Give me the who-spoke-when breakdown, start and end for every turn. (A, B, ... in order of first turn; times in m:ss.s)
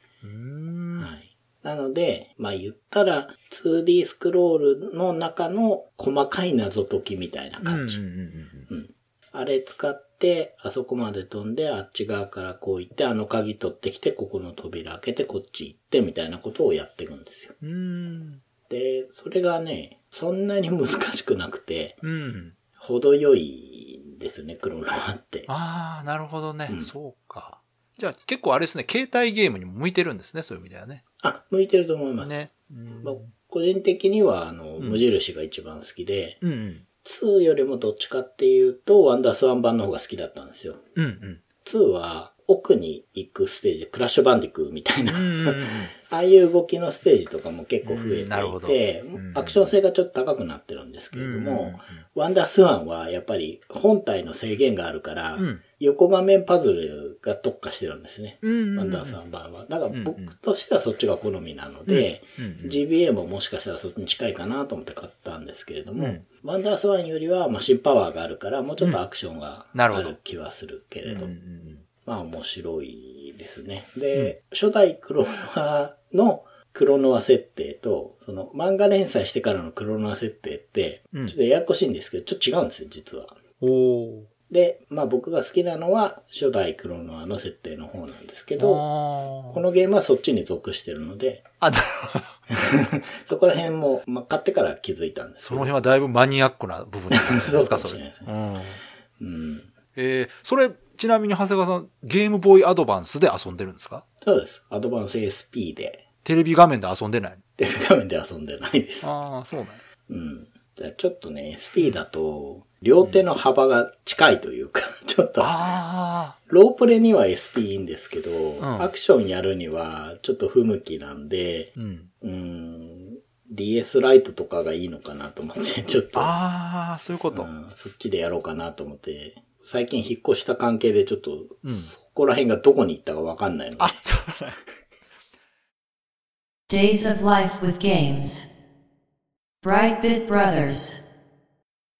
0:00.2-0:01.1 A
0:01.0-0:08.0 B
0:07.6-0:08.7 A
0:08.7-0:17.5 B
0:17.6-0:18.4 A
0:18.7-0:22.0 B
0:22.0-0:22.5 A
0:22.7-0:25.5 B
0:25.5-0:31.0 A
0:31.2-0:32.4 B
0:32.2-0:33.3 A
0:33.0-0:36.4 B
0:34.8-0:35.0 A
0:36.4-0:36.8 A
0:37.0-0:40.8 B
0:41.0-0:41.4 A
0:41.6-1:11.3 B
0:45.0-0:45.9 A
0:47.8-0:49.6 A
0:51.1-0:52.0 A
0:55.4-0:55.6 A
0:58.4-0:59.2 A
0:59.9-1:00.3 A
1:01.9-1:02.8 A
1:05.9-1:06.2 A
1:09.7-1:10.2 A
1:11.0-1:11.9 A
1:12.0-1:23.4 B
1:23.6-1:24.3 A
1:24.5-1:28.8 B
1:28.6-1:29.6 A
1:29.5-1:31.4 B
1:31.6-1:32.3 A
1:32.6-1:35.8 B
1:35.4-1:38.8 A
1:37.1-1:38.3 B
1:39.2-1:39.7 B
1:39.9-1:44.0 A
1:44.2-1:46.0 B
1:46.2-1:47.4 A
1:47.6-1:49.1 B
1:49.0-1:49.8 A
1:50.1-1:55.8 B
1:55.4-1:56.4 A
1:56.4-2:06.4 B
1:58.6-1:58.9 A
2:01.8-2:02.1 A
2:06.1-2:07.5 A
2:07.3-2:14.0 B
2:11.6-2:11.9 A
2:13.8-2:14.6 A
2:16.7-2:18.4 C
2:19.6-2:21.0 C